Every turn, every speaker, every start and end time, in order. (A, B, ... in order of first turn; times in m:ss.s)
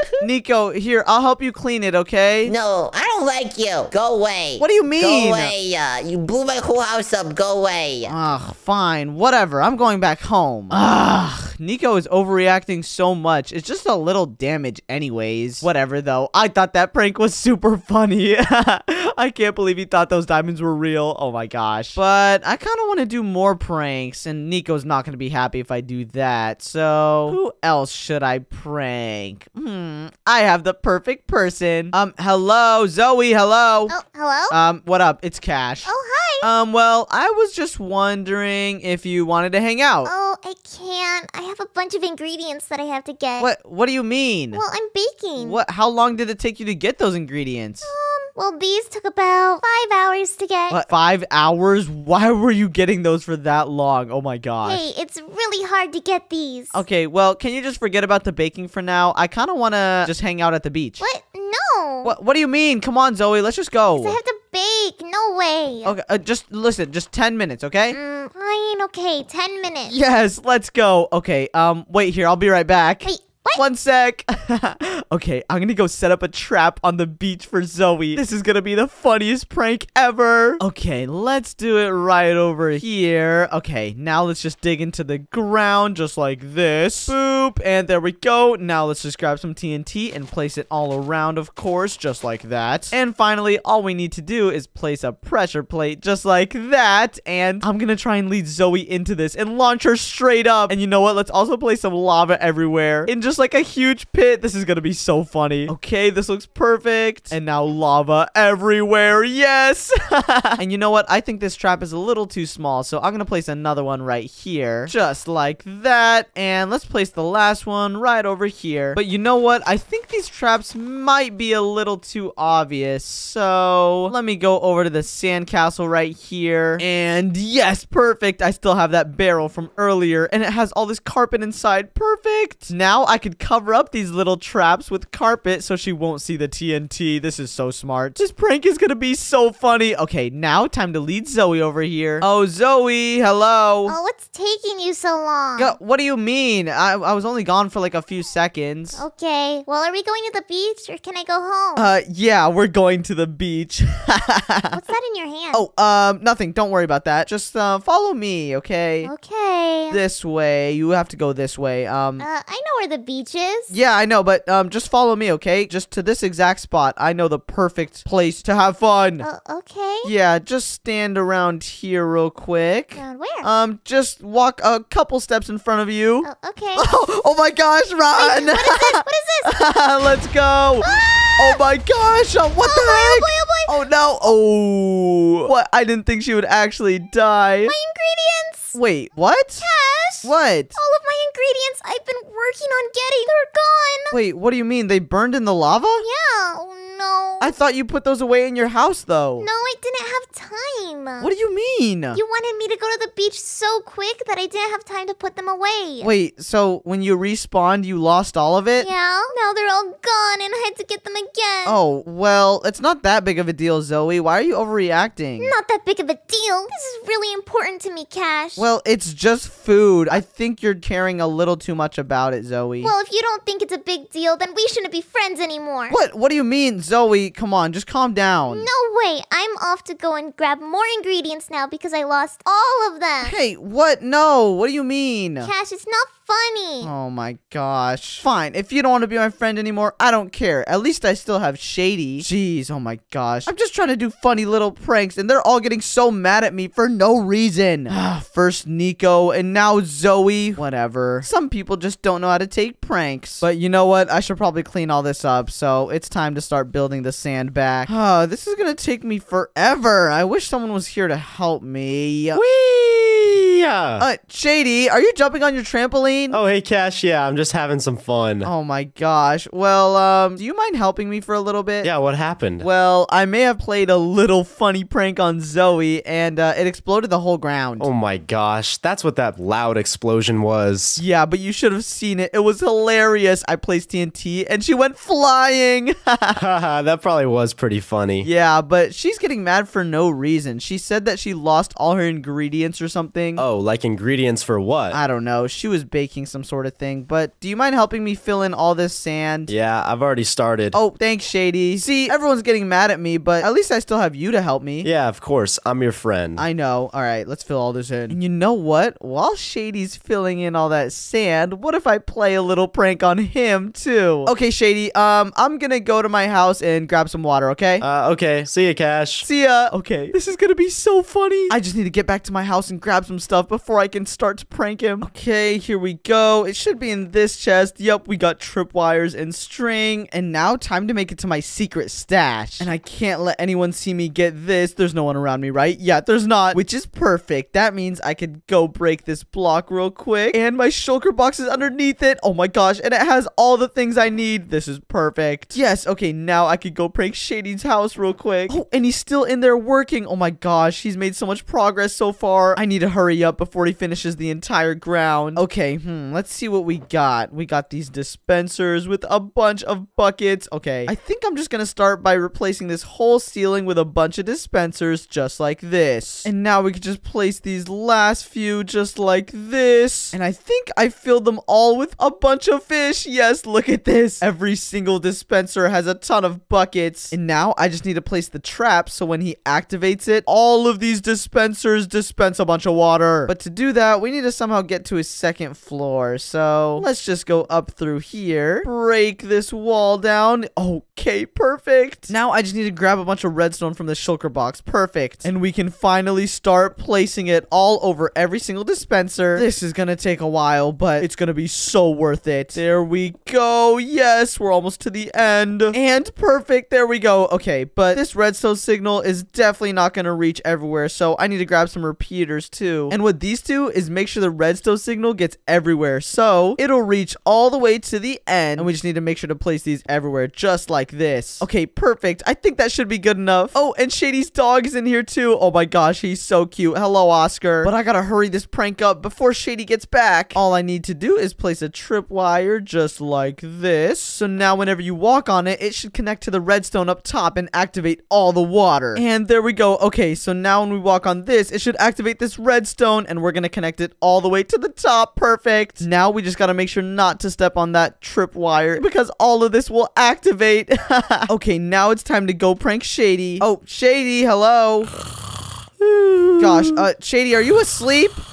0:00.2-0:02.5 A
0:02.4-0:08.1 B
0:04.6-0:05.5 A
0:08.1-0:33.9 A
0:33.9-0:34.5 C
0:34.5-0:40.1 A
0:35.8-0:36.5 C
0:40.0-0:43.5 C
0:43.4-0:44.6 A
0:44.5-0:45.6 C
0:45.4-0:47.9 A
0:47.8-0:50.8 C
0:50.7-0:54.8 A
0:54.6-0:56.8 C
0:56.7-1:01.0 A
1:01.0-1:02.1 C
1:02.0-1:04.2 A
1:03.9-1:06.0 C
1:05.8-1:08.0 A
1:07.9-1:10.0 C
1:09.9-2:24.0 A
1:13.0-1:13.6 C
2:23.8-2:25.8 C
2:25.6-2:29.0 A
2:28.9-2:31.9 C
2:31.8-2:34.8 A
2:34.7-2:35.6 C
2:35.5-2:39.1 A
2:39.0-2:40.0 C
2:39.9-2:42.2 A
2:42.2-2:43.7 C
2:43.7-2:49.2 A
2:49.2-2:50.1 C
2:50.0-3:07.7 A
2:53.0-2:53.5 C
2:56.2-2:56.9 C
2:58.2-2:59.6 C
3:00.8-3:01.6 C
3:02.6-3:03.8 C
3:07.7-3:08.8 C
3:08.7-3:09.6 A
3:09.6-3:14.2 C
3:10.2-3:10.7 A
3:14.1-3:16.0 A
3:16.0-3:17.5 C
3:17.4-3:19.5 A
3:19.4-3:21.3 C
3:21.2-3:22.2 A
3:22.1-3:26.1 C
3:26.0-3:28.9 A
3:28.8-3:31.8 C
3:31.6-3:35.6 A
3:35.4-3:38.6 C
3:38.6-3:42.9 A
3:42.8-3:46.0 C
3:45.9-3:48.7 A
3:48.5-3:53.4 C
3:53.2-3:55.5 A
3:55.4-3:56.9 C
3:56.8-4:22.4 A
4:22.3-4:24.0 D
4:24.0-4:26.4 A
4:26.3-4:28.5 D
4:28.4-4:31.9 A
4:31.8-4:32.7 D
4:32.6-4:37.9 A
4:37.8-4:41.0 D
4:41.0-4:46.4 A
4:46.3-4:48.3 D
4:48.2-4:53.4 A
4:53.4-4:55.0 D
4:54.9-4:59.5 A
4:59.5-5:00.8 D
5:00.7-5:04.9 A
5:04.8-5:06.4 D
5:06.4-5:17.8 A
5:17.8-5:19.2 D
5:19.2-7:34.9 A
7:35.8-7:36.7 D
7:36.4-7:38.2 A